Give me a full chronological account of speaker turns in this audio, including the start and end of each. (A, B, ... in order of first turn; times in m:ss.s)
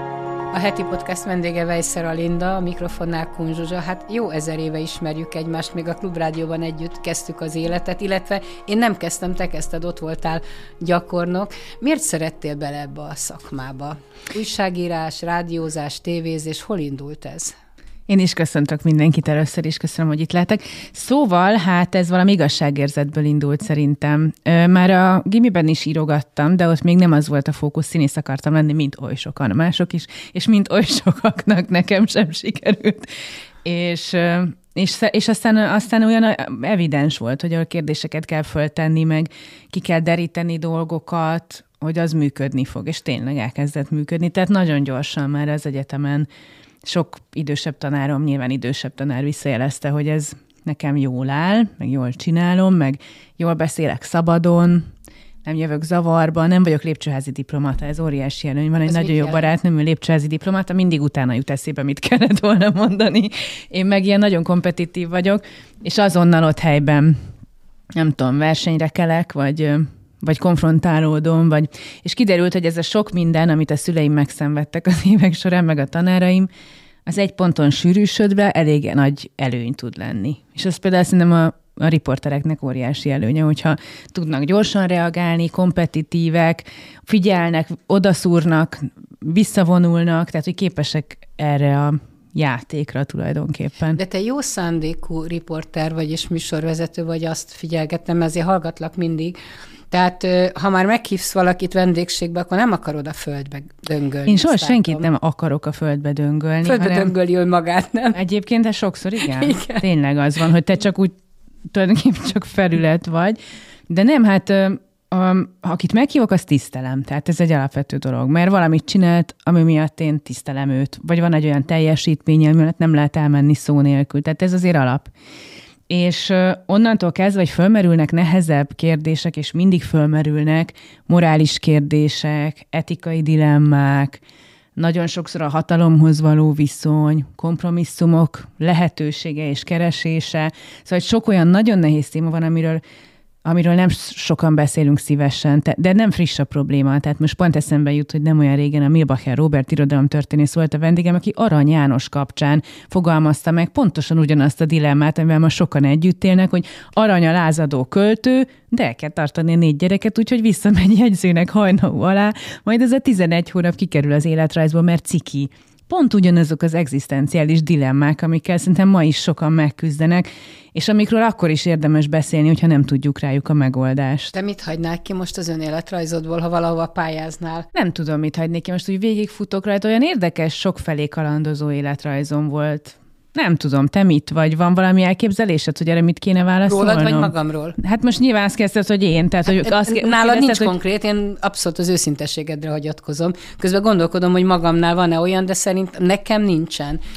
0:00.5-0:17.6 A
0:18.1-0:46.3 B
0:46.8-0:54.9 B
0:55.4-1:07.2 B
0:58.9-0:59.5 A
1:07.9-1:16.5 B
1:17.1-1:34.0 B
1:34.0-1:39.4 A
1:39.9-1:45.1 A
1:44.3-1:47.1 B
1:46.6-1:48.2 A
1:48.1-1:51.2 B
1:49.2-1:49.8 A
1:51.7-2:05.1 B
2:05.9-2:14.2 B
2:14.8-2:22.8 B
2:23.4-2:54.3 B
2:54.3-2:57.7 A
2:57.7-3:10.7 B
3:06.7-3:07.8 A
3:09.4-3:17.0 A